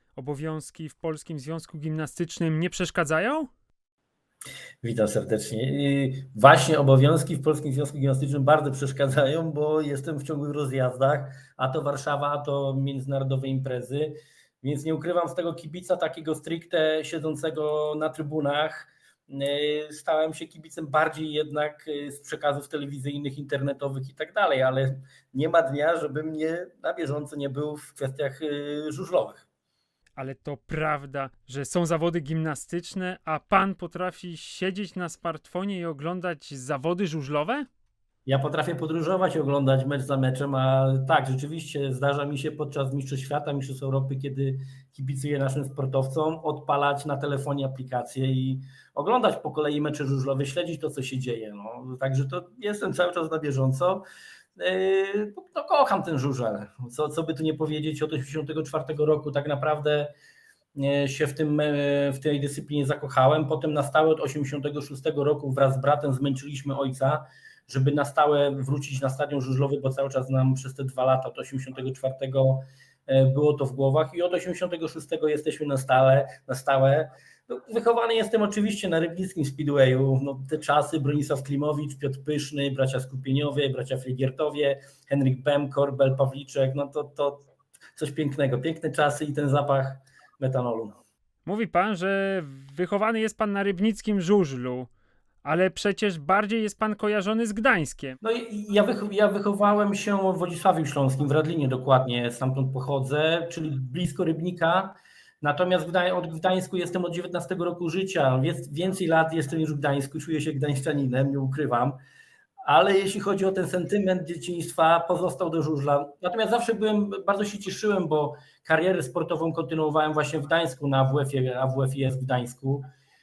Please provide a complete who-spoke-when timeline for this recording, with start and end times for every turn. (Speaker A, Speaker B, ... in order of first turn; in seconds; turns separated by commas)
Speaker A: 0.1-3.5, Speaker B: 4.8-29.5, Speaker A: 30.1-37.7, Speaker B: 38.2-54.0, Speaker B: 54.5-60.1, Speaker B: 60.8-91.0, Speaker A: 91.5-94.9, Speaker A: 95.4-98.2, Speaker B: 98.2-112.0, Speaker B: 112.6-122.8